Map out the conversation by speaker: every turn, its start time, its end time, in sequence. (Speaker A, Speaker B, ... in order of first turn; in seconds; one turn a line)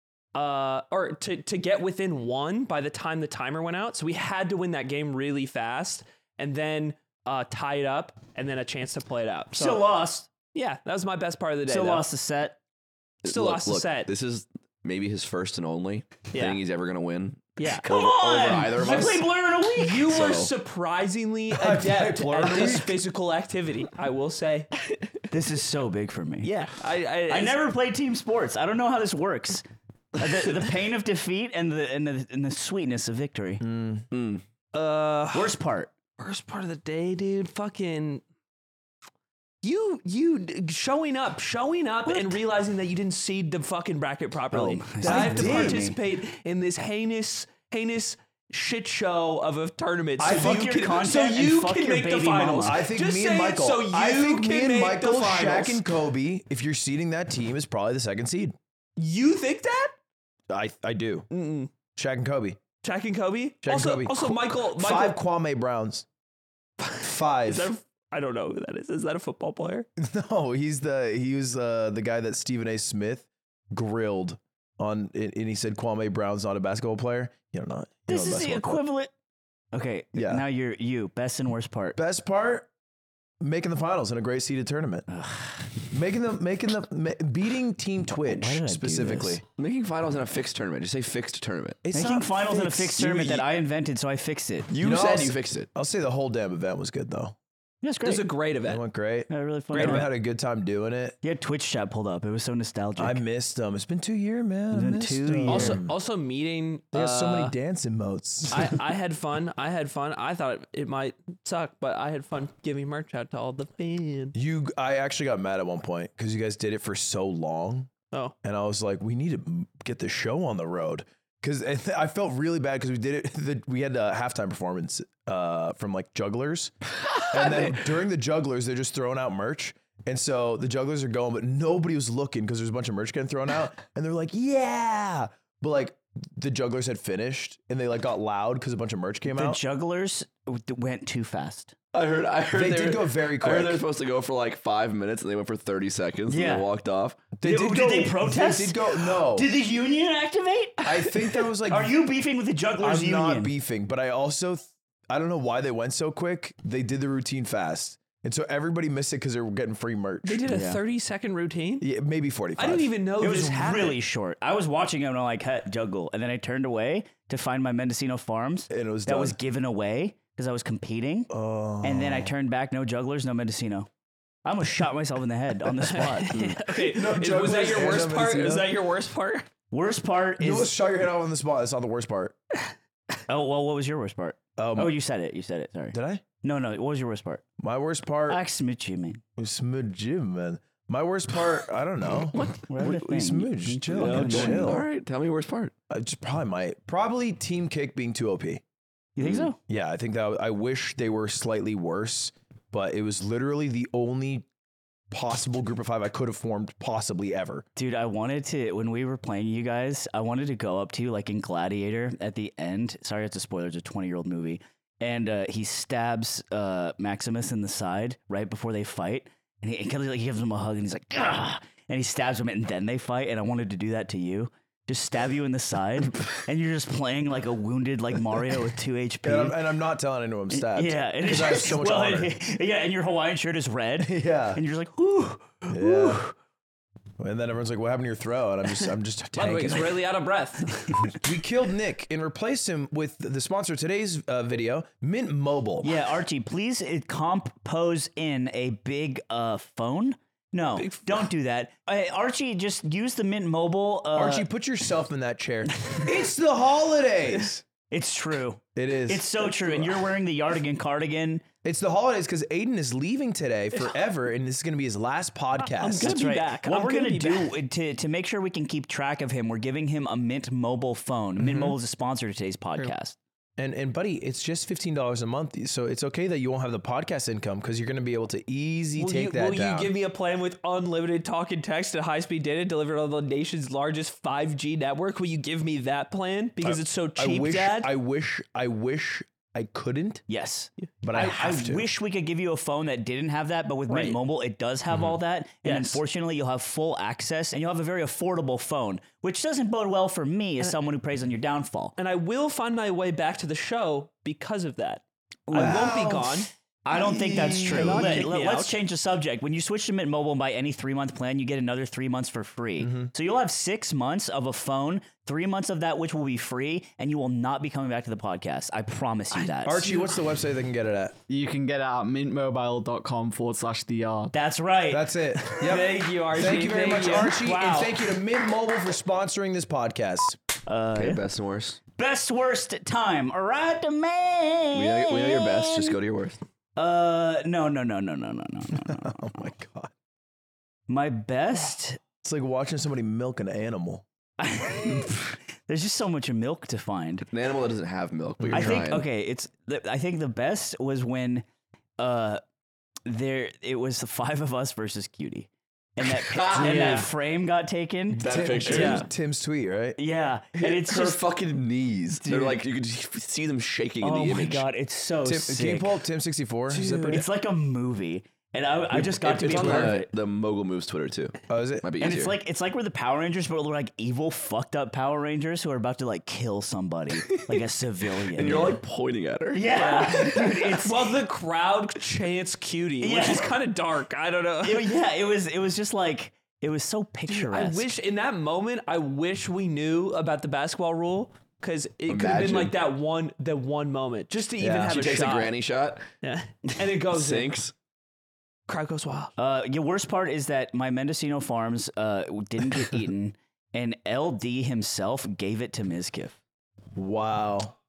Speaker A: 0.3-9.8
Speaker B: 9.5-10.3
Speaker A: 10.5-12.1
Speaker B: 11.7-12.6
Speaker C: 13.2-19.2
Speaker A: 13.2-14.1
Speaker A: 16.3-16.6
Speaker A: 17.6-17.8
Speaker B: 17.6-20.2
Speaker A: 19.8-24.7
Speaker C: 20.0-20.5
Speaker D: 21.5-23.0
Speaker B: 25.3-26.5
Speaker A: 26.4-27.6
Speaker B: 27.3-29.6
Speaker B: 30.2-33.6
Speaker D: 33.6-34.0
Speaker C: 34.1-34.4
Speaker A: 34.7-35.5
Speaker B: 35.3-35.9
Speaker A: 36.2-38.2
Speaker A: 39.6-55.8
Speaker B: 42.0-42.4
Speaker B: 44.5-46.0
Speaker D: 45.0-45.9
Speaker D: 50.2-50.7
Speaker B: 50.2-52.8
Speaker D: 52.6-58.5
Speaker A: 59.0-60.0
Speaker D: 60.5-61.3
Speaker A: 61.3-61.7
Speaker D: 61.9-62.6
Speaker A: 62.8-65.2
Speaker D: 63.6-66.0
Speaker A: 66.8-69.9
Speaker D: 67.0-67.7
Speaker D: 70.0-78.8
Speaker B: 78.1-79.1
Speaker B: 79.7-82.0
Speaker D: 80.1-80.4
Speaker D: 81.9-82.7
Speaker D: 83.4-85.1
Speaker B: 85.1-85.7
Speaker D: 85.9-89.4
Speaker B: 88.1-89.4
Speaker C: 89.6-91.8
Speaker D: 91.8-93.5
Speaker B: 91.9-94.7
Speaker C: 94.7-95.7
Speaker D: 94.8-97.3
Speaker B: 97.8-98.2
Speaker A: 98.0-98.8
Speaker D: 98.6-101.2
Speaker B: 99.3-100.1
Speaker A: 99.8-100.1
Speaker B: 101.2-103.2
Speaker D: 103.0-105.9
Speaker B: 104.7-105.8
Speaker A: 105.5-107.5
Speaker D: 106.9-108.8
Speaker A: 108.5-114.3
Speaker D: 114.3-117.9
Speaker D: 118.4-126.7
Speaker D: 127.3-139.6
Speaker A: 127.4-127.7
Speaker B: 139.3-141.7
Speaker C: 141.9-147.3
Speaker D: 142.5-143.8
Speaker B: 146.3-146.7
Speaker D: 147.3-149.5
Speaker B: 147.4-153.5
Speaker D: 150.8-151.9
Speaker D: 152.8-160.4
Speaker A: 160.2-161.9
Speaker B: 160.5-160.8
Speaker D: 161.8-162.9
Speaker A: 162.6-164.0
Speaker B: 163.2-173.9
Speaker D: 168.7-169.4
Speaker D: 171.3-172.3
Speaker B: 174.4-176.3
Speaker A: 175.8-179.5
Speaker C: 176.3-176.6
Speaker D: 176.7-178.8
Speaker B: 179.7-180.7
Speaker D: 180.4-182.4
Speaker B: 183.3-187.4
Speaker D: 184.6-185.0
Speaker D: 185.9-186.2
Speaker D: 187.6-188.4
Speaker B: 188.3-189.2
Speaker D: 189.4-194.8
Speaker B: 192.7-194.7
Speaker C: 193.9-195.7
Speaker D: 195.9-198.6
Speaker B: 199.2-199.6
Speaker C: 199.2-199.5
Speaker D: 199.7-204.4
Speaker D: 205.1-207.6
Speaker B: 207.8-229.6
Speaker D: 229.2-232.3
Speaker B: 230.5-236.3
Speaker D: 234.0-234.6
Speaker D: 235.7-236.2
Speaker D: 237.2-240.0
Speaker A: 239.3-241.1
Speaker D: 241.1-245.9
Speaker B: 245.8-254.5
Speaker A: 250.8-251.3
Speaker D: 254.1-257.6
Speaker B: 257.9-261.4
Speaker D: 258.7-260.1
Speaker D: 261.6-266.1
Speaker A: 265.8-267.5
Speaker B: 266.0-273.2
Speaker D: 271.4-271.7
Speaker D: 273.6-279.9
Speaker A: 278.9-287.9
Speaker D: 286.6-290.2
Speaker B: 290.3-301.9
Speaker D: 291.0-291.9
Speaker A: 293.9-294.2
Speaker A: 295.6-296.0
Speaker A: 301.9-306.5
Speaker B: 305.5-319.8
Speaker D: 305.5-306.3
Speaker D: 306.9-308.3
Speaker A: 307.5-308.8
Speaker D: 312.8-313.1
Speaker A: 319.3-320.2
Speaker D: 319.6-321.1
Speaker E: 321.3-324.3
Speaker B: 324.3-325.9
Speaker D: 324.9-330.4
Speaker A: 325.6-328.1
Speaker B: 330.6-331.2
Speaker C: 330.9-331.8
Speaker B: 331.9-336.0
Speaker C: 334.7-336.4
Speaker B: 336.8-339.5
Speaker D: 338.7-339.9
Speaker B: 340.9-342.0
Speaker D: 342.2-344.0
Speaker B: 344.4-347.3
Speaker C: 347.3-349.1
Speaker D: 348.4-348.8
Speaker B: 348.5-351.4
Speaker B: 352.0-352.4
Speaker B: 353.1-359.1
Speaker C: 356.0-357.1
Speaker D: 356.5-357.1
Speaker C: 358.1-359.1
Speaker D: 358.2-360.0
Speaker B: 360.0-361.2
Speaker C: 360.6-364.6
Speaker B: 362.2-362.6
Speaker B: 364.0-365.9
Speaker D: 365.2-367.2
Speaker A: 366.7-367.2
Speaker B: 366.7-370.1
Speaker C: 368.9-372.3
Speaker D: 369.4-369.9
Speaker D: 371.5-371.9
Speaker B: 372.0-378.8
Speaker C: 377.3-377.6
Speaker C: 378.3-380.3
Speaker B: 379.5-381.0
Speaker A: 379.7-384.9
Speaker B: 383.0-383.6
Speaker B: 384.6-387.9
Speaker A: 387.3-395.5
Speaker C: 392.1-392.7
Speaker D: 394.6-394.9
Speaker C: 394.8-396.0
Speaker A: 396.2-397.6
Speaker C: 397.1-397.7
Speaker A: 398.7-399.3
Speaker B: 399.4-406.4
Speaker D: 406.9-407.7